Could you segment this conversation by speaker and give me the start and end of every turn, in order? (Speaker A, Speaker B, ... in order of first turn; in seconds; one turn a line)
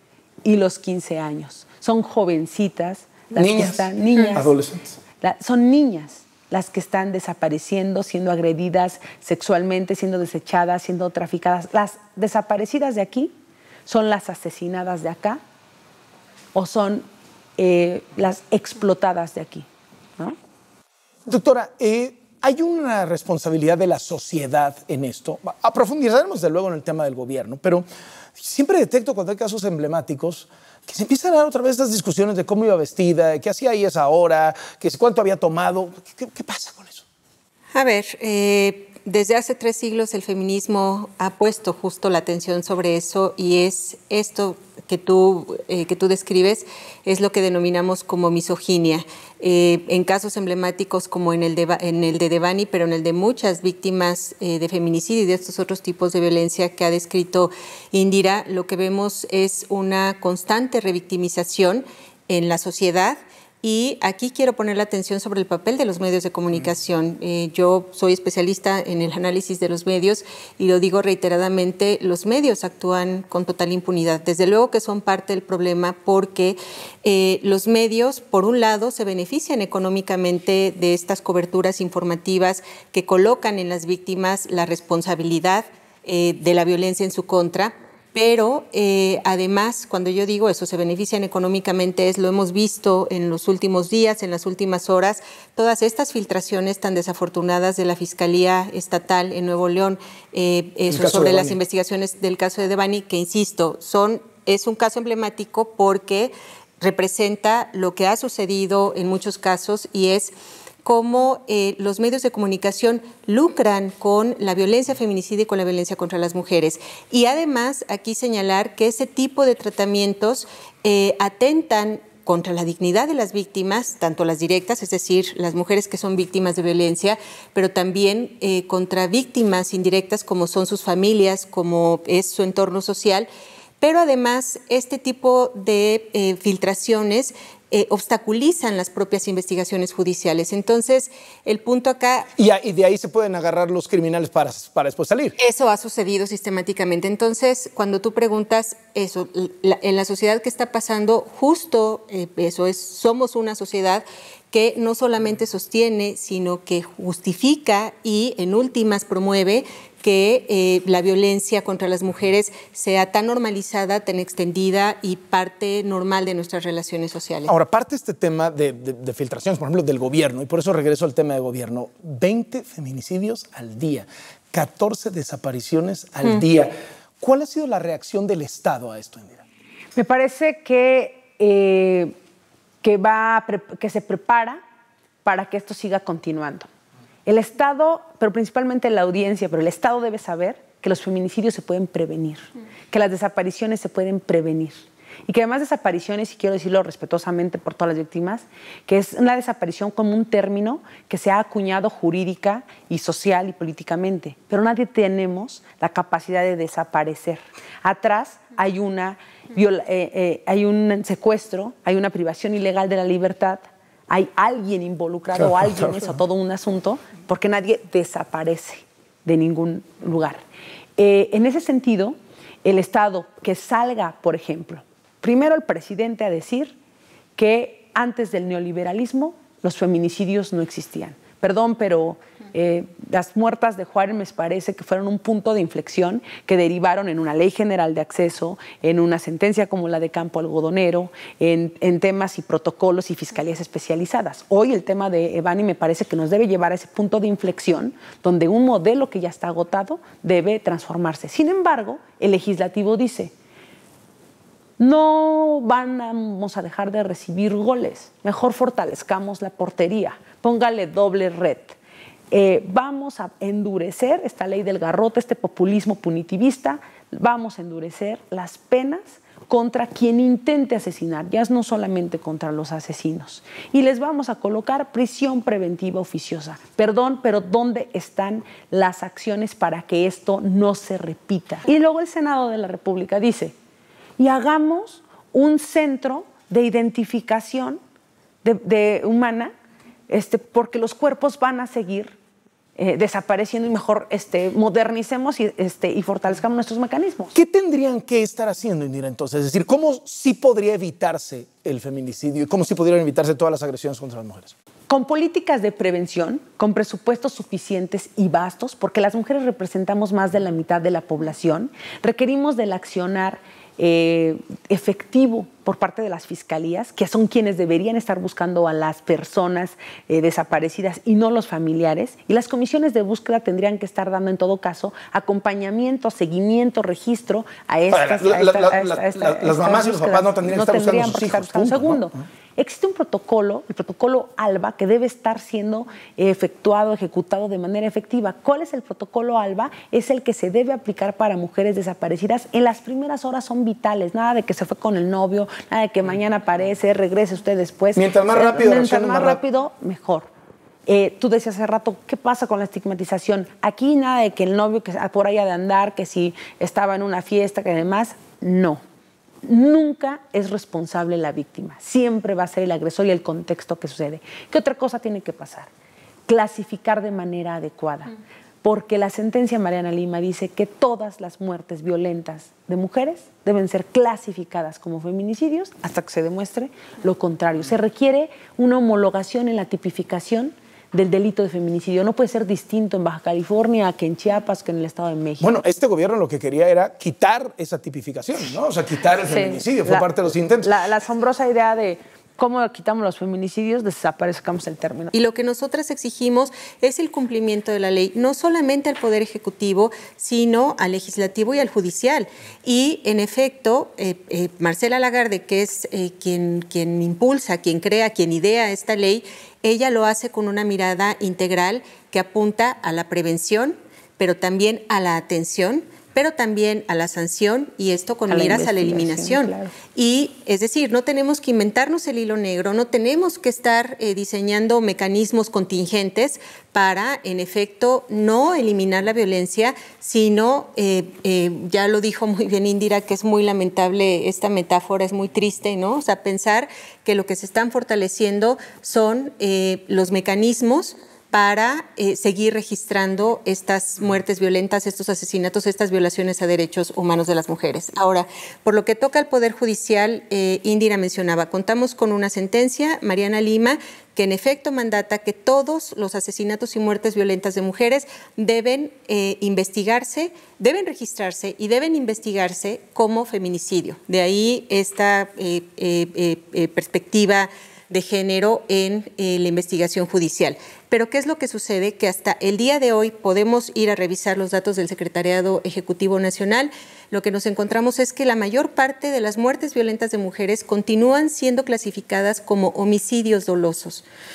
Speaker A: 0.4-4.5
Speaker B: 3.3-5.0
Speaker A: 5.2-13.3
Speaker A: 13.8-15.4
Speaker A: 16.5-17.1
Speaker A: 17.6-19.7
Speaker B: 21.2-27.8
Speaker B: 28.4-37.0
Speaker C: 37.7-110.3
Speaker B: 100.9-101.6
Speaker C: 110.8-133.3
Speaker C: 133.8-142.3
Speaker B: 142.3-145.3
Speaker C: 145.4-167.5
Speaker B: 167.5-179.4
Speaker A: 179.9-182.1
Speaker A: 182.8-184.6
Speaker A: 185.2-186.7
Speaker A: 187.2-220.4
Speaker B: 215.6-216.0
Speaker A: 221.0-226.7
Speaker A: 227.3-253.3
Speaker A: 254.8-261.8
Speaker A: 262.3-283.5
Speaker A: 284.2-287.8
Speaker A: 288.4-289.5
Speaker A: 290.1-292.1
Speaker A: 292.8-297.4
Speaker B: 297.3-304.5
Speaker A: 304.9-350.3
Speaker B: 327.9-332.2
Speaker B: 347.9-349.4
Speaker A: 350.9-358.8
Speaker A: 359.4-365.7
Speaker A: 366.3-368.1
Speaker A: 368.6-385.6
Speaker B: 385.4-390.7
Speaker A: 389.3-395.1
Speaker C: 395.1-484.0
Speaker A: 418.3-419.7